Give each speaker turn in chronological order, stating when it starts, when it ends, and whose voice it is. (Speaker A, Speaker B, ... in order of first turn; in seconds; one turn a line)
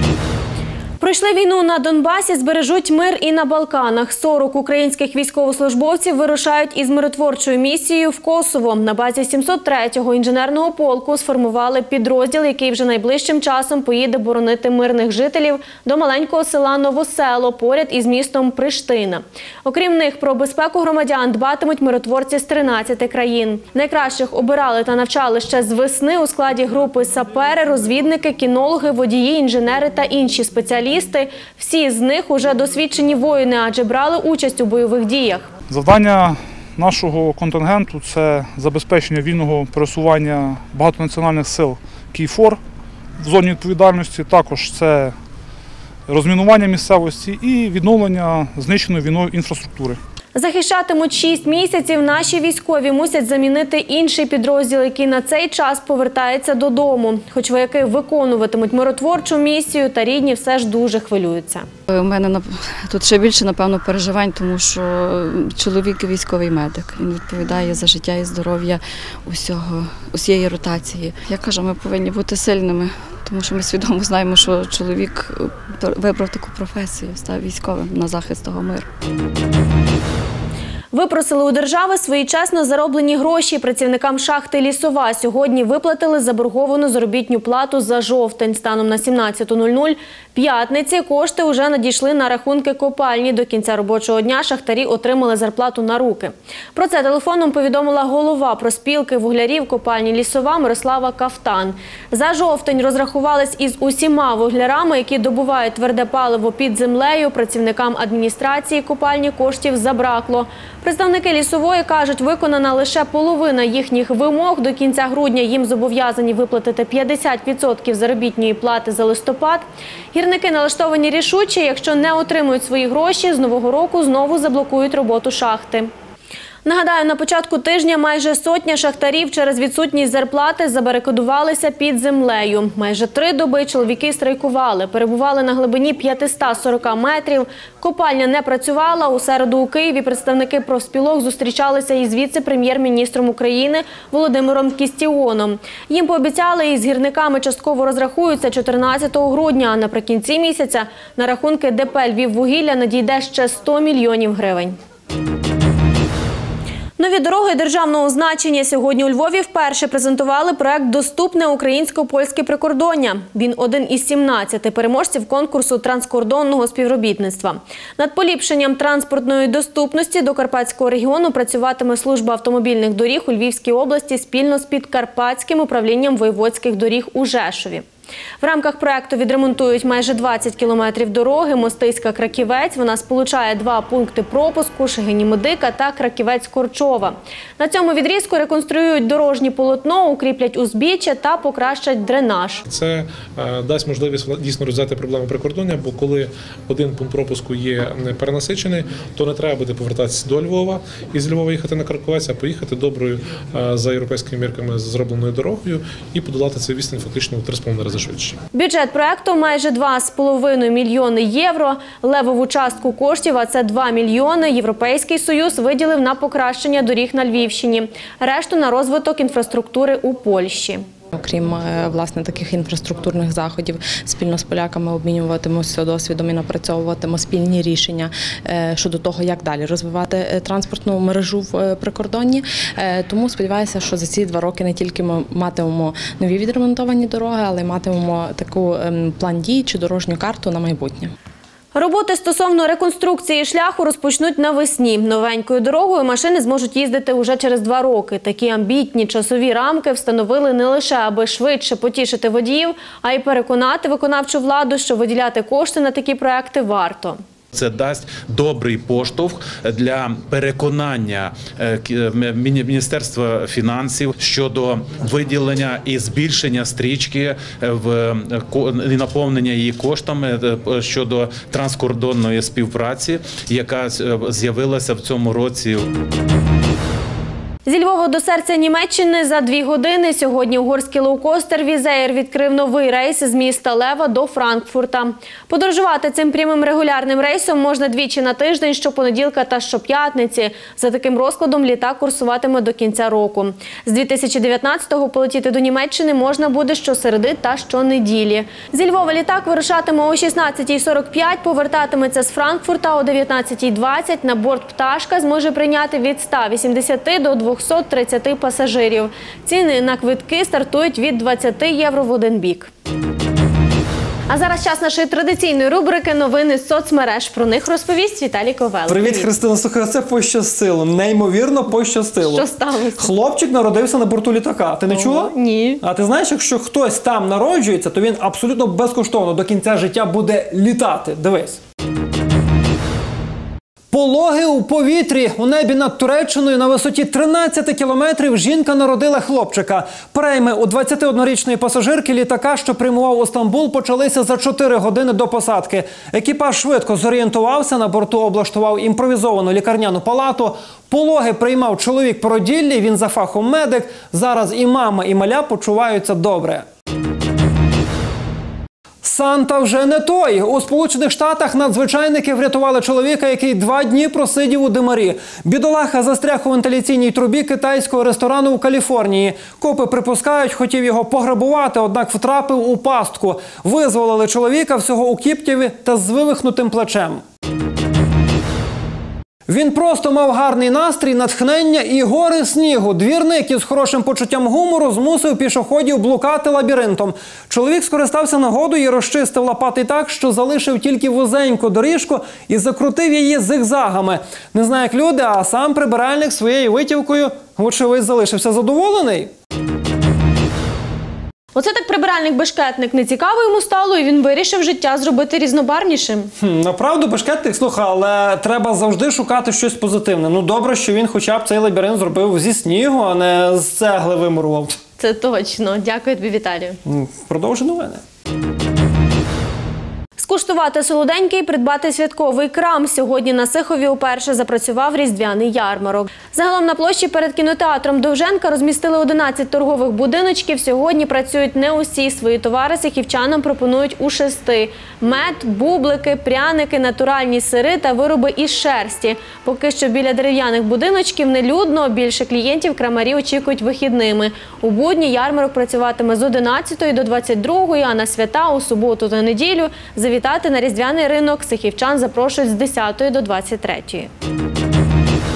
Speaker A: 1.0-35.5
Speaker B: 35.7-42.6
Speaker B: 43.2-45.1
Speaker B: 46.1-50.0
Speaker A: 50.4-61.7
Speaker C: 61.9-78.9
Speaker A: 80.9-125.9
Speaker A: 126.7-154.8
Speaker A: 157.0-177.8
Speaker A: 178.4-192.6
Speaker D: 192.7-208.3
Speaker A: 208.5-220.8
Speaker E: 221.2-241.1
Speaker A: 241.8-257.2
Speaker F: 257.5-275.9
Speaker A: 277.7-312.7
Speaker A: 314.3-319.3
Speaker G: 318.9-331.6
Speaker A: 322.2-323.1
Speaker A: 324.9-325.8
Speaker G: 333.9-356.7
Speaker G: 359.0-377.2
Speaker G: 379.5-399.3
Speaker A: 401.6-406.3
Speaker G: 406.4-414.8
Speaker A: 415.0-416.8
Speaker G: 416.9-418.0
Speaker A: 420.2-454.1